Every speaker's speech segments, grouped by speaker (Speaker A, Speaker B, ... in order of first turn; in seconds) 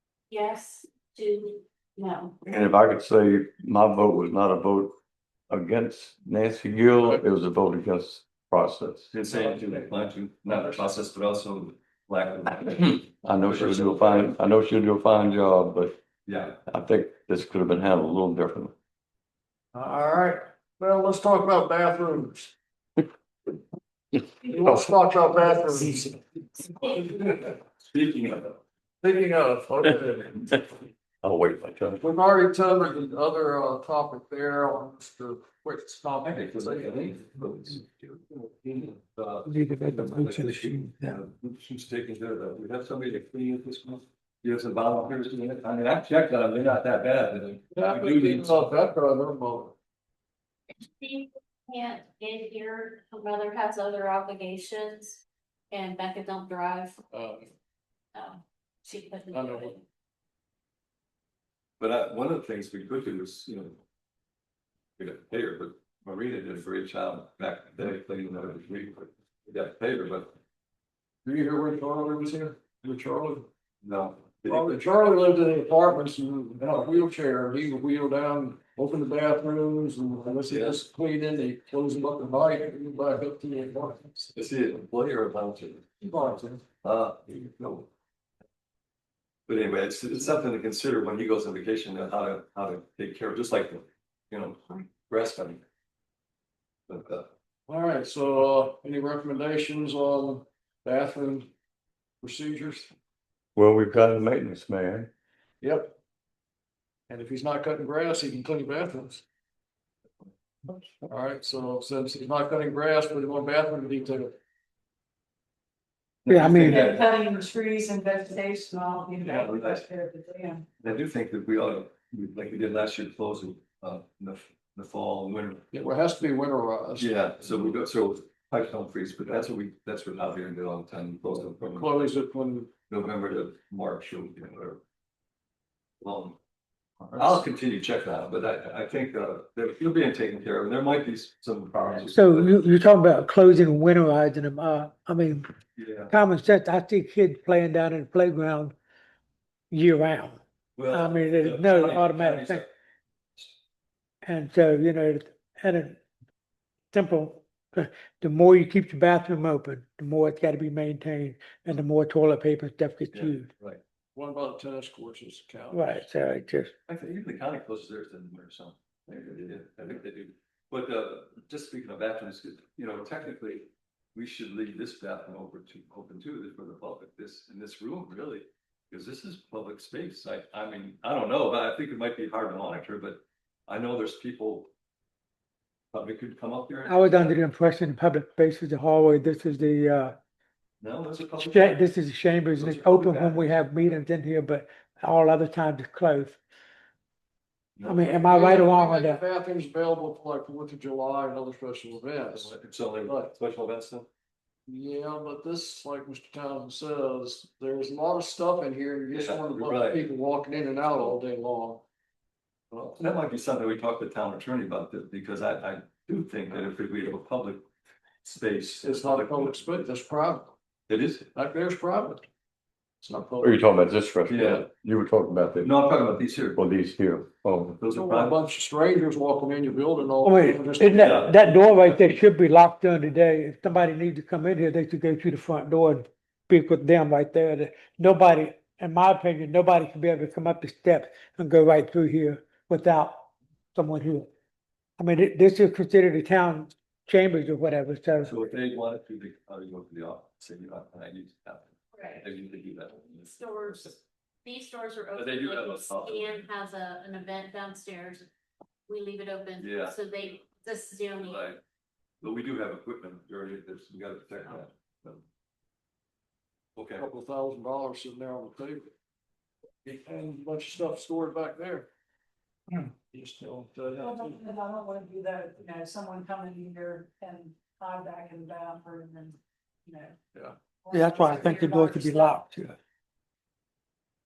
Speaker A: 0.3-2.4, 50.7-57.0, 58.1-59.8, 251.9-252.3, 253.2-258.3, 258.9-261.5
Speaker B: 2.4-5.0, 5.5-9.1, 13.2-16.0, 16.7-18.7, 31.2-32.0, 103.6-105.1, 223.4-225.7, 226.6-227.8
Speaker C: 9.1-14.4, 16.3-16.6, 27.2-28.6, 36.2-48.6, 61.8-63.8, 65.0-70.3, 73.8-74.9, 80.5-80.8, 84.3-85.9, 86.8-87.9, 89.5-95.6, 96.9-97.3, 116.2-117.1, 119.2-119.9, 120.8-125.7, 127.0-132.0, 132.9-134.8, 136.0-136.4, 137.2-142.6, 145.8-146.1, 150.8-152.7, 163.1-163.8, 166.9-184.7, 185.9-187.4, 190.8-191.9, 192.6-194.0, 197.8-198.2, 202.3-204.1, 209.1-210.1, 213.0-217.7, 218.2-219.6, 220.9-221.3, 224.3-224.7, 225.6-226.6, 227.8-228.4, 230.9-232.2, 248.2-253.9, 255.2-256.4, 259.6-260.4, 261.1-261.6, 262.2-265.2, 266.8-267.1
Speaker D: 9.4-9.9, 19.7-22.5, 24.4-27.1, 29.0-30.7, 32.0-37.1, 47.8-49.8, 57.1-57.5, 59.3-59.7, 71.2-73.5, 74.5-84.3, 86.0-86.6, 97.7-101.5, 102.2-102.9, 105.6-106.0, 107.1-109.2, 111.1-114.4, 125.7-127.3, 131.6-132.7, 164.2-166.0, 198.2-202.5, 203.0-203.3, 204.7-211.8, 212.7-213.0, 218.8-220.6, 221.3-222.3, 223.0-223.6, 227.9-231.2, 266.9-268.9, 269.8-271.9, 273.1-274.4
Speaker E: 39.5-41.2, 116.3-116.9, 142.1-145.5, 146.1-148.8, 149.7-150.4, 150.9-152.7, 154.2-156.0, 156.9-163.5, 165.7-166.7, 186.8-190.2, 191.4-196.4, 197.8-199.2, 230.2-244.3, 245.0-248.3, 280.9-282.8
Speaker F: 116.9-120.7, 274.0-280.2, 280.8-282.4